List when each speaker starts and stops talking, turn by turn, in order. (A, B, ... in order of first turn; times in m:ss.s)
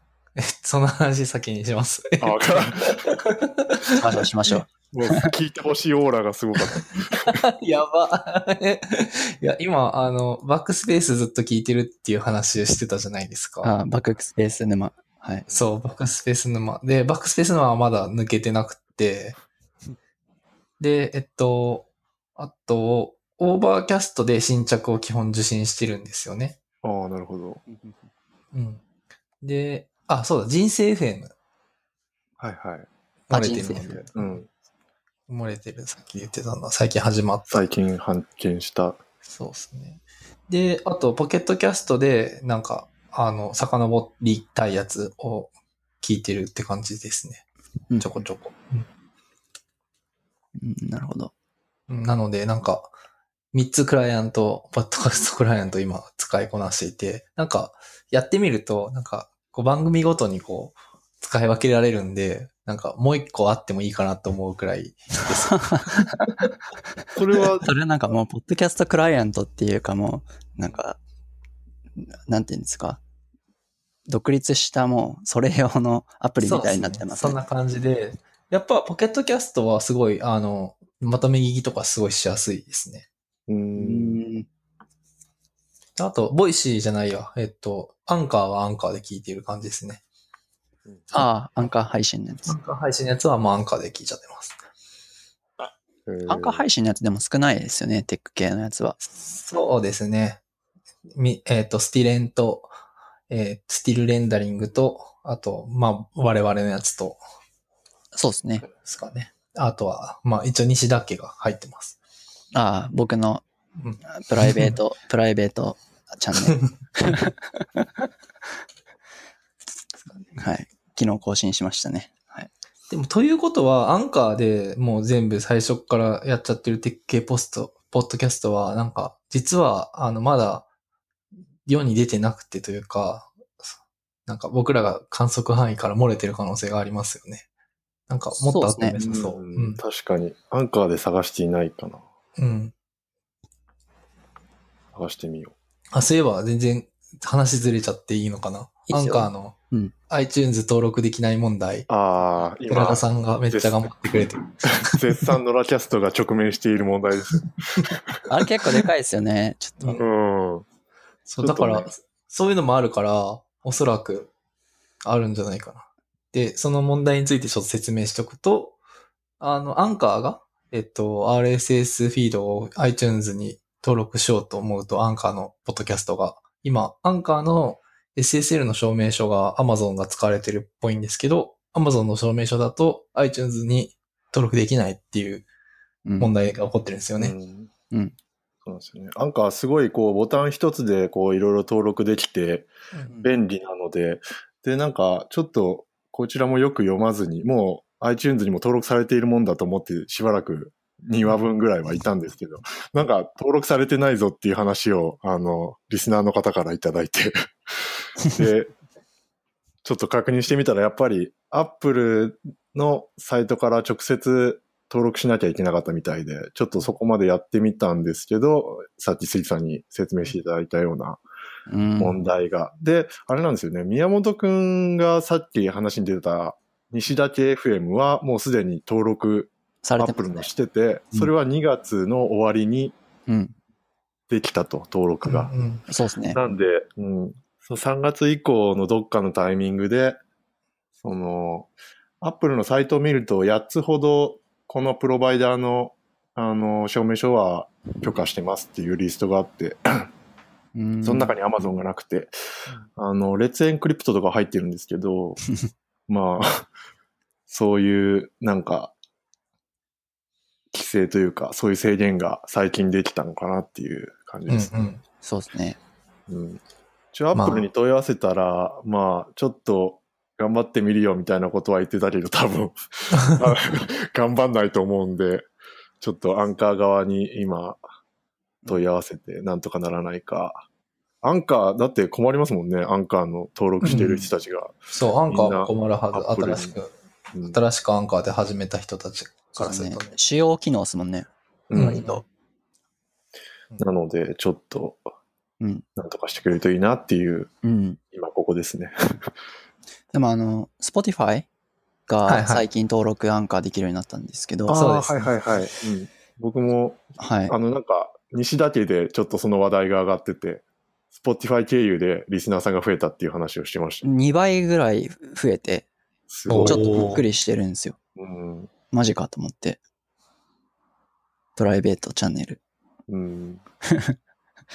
0:00.4-0:04.1 A
0:02.2-0:03.0 B
0:04.0-0:05.3 C
0:04.9-0:07.4 B
0:07.2-0:13.8 A
0:13.6-0:15.5 C
0:15.5-0:19.4 A
0:20.8-0:26.6 A
0:26.8-0:27.6 B
0:27.7-0:28.1 C
0:28.5-0:28.8 A
0:29.4-0:31.3 A
0:32.4-0:32.9 B
0:33.3-0:34.4 A
0:33.3-0:34.0 C
0:34.0-0:34.5 B
0:35.3-0:37.6 A
0:37.5-0:39.0 B
0:39.3-0:47.4 A
0:47.9-0:48.2 C
0:48.0-0:48.8 A
0:50.6-0:51.3 C
0:51.9-0:52.9 A
0:53.5-1:06.5 A
1:05.3-1:06.3 C
1:07.2-1:07.7 B
1:07.6-1:11.0 C
1:12.0-1:13.0 C
1:14.1-1:17.4 C
1:16.4-1:23.0 A
1:23.5-1:24.2 B
1:23.7-1:24.4 C
1:26.0-1:30.0 A
1:31.1-1:32.6 C
1:32.4-1:34.6 A
1:35.6-1:36.6 B
1:36.2-1:39.0 C
1:39.1-1:40.4 A
1:41.1-1:42.7 A
1:43.3-1:47.2 A
1:48.1-1:48.7 C
1:48.8-1:52.0 A
1:52.5-1:53.4 C
1:53.8-1:54.8 A
1:54.0-1:57.9 C
1:56.4-1:57.2 A
2:00.3-2:02.5 C
2:02.9-2:10.7 A
2:11.6-2:13.7 A
2:14.3-2:17.5 A
2:18.1-2:19.8 A
2:18.4-2:19.0 C
2:19.0-2:22.0 B
2:22.4-2:22.7 A
2:24.9-2:25.5 B
2:25.9-2:29.6 A
2:28.9-2:29.9 C
2:30.1-2:31.9 A
2:31.9-2:38.2 B
2:32.7-2:35.3 A
2:38.3-2:40.0 C
2:40.0-2:40.6 B
2:41.3-2:44.3 A
2:41.4-2:41.9 B
2:45.0-2:48.8 A
2:49.4-3:05.5 A
3:06.0-3:06.3 C
3:06.2-3:07.3 A
3:07.2-3:07.7 B
3:07.9-3:08.1 C
3:08.6-3:12.7 B
3:13.2-3:27.5 B
3:28.2-3:28.7 B
3:29.8-3:41.2 B
3:41.7-3:42.2 C
3:42.0-3:52.9 B
3:49.8-3:50.5 C
3:53.3-3:53.5 C
3:54.3-3:55.5 B
3:55.2-3:55.8 A
3:55.9-3:56.4 C
3:56.3-4:00.2 B
4:01.0-4:10.1 B
4:10.7-4:11.3 C
4:11.0-4:12.3 B
4:12.9-4:15.4 B
4:16.1-4:16.7 B
4:17.5-4:18.9 B
4:20.7-4:24.9 B
4:24.5-4:25.0 A
4:25.2-4:25.8 C
4:26.3-4:26.6 B
4:27.1-4:35.5 B
4:27.3-4:27.7 A
4:36.0-4:37.8 B
4:38.6-4:40.6 B
4:41.2-4:44.8 B
4:43.8-4:44.2 A
4:43.9-4:44.2 C
4:44.9-4:46.9 A
4:45.3-4:46.8 B
4:47.3-4:47.6 B
4:47.5-4:50.1 A
4:49.6-4:52.2 C
4:51.7-4:52.0 B
4:51.7-4:52.2 A
4:53.8-4:55.0 B
4:55.6-4:55.8 C
4:56.0-4:57.5 B
4:57.6-4:58.0 C
4:58.1-4:59.3 B
5:00.1-5:01.5 C
5:02.1-5:04.9 C
5:02.2-5:02.6 A
5:04.7-5:14.0 B
5:04.7-5:05.2 A
5:07.2-5:07.5 C
5:14.0-5:15.9 C
5:16.3-5:17.1 B
5:16.5-5:17.2 A
5:16.6-5:18.0 C
5:18.2-5:18.7 B
5:18.9-5:19.8 C
5:21.6-5:22.6 C
5:23.1-5:23.6 B
5:23.8-5:24.2 C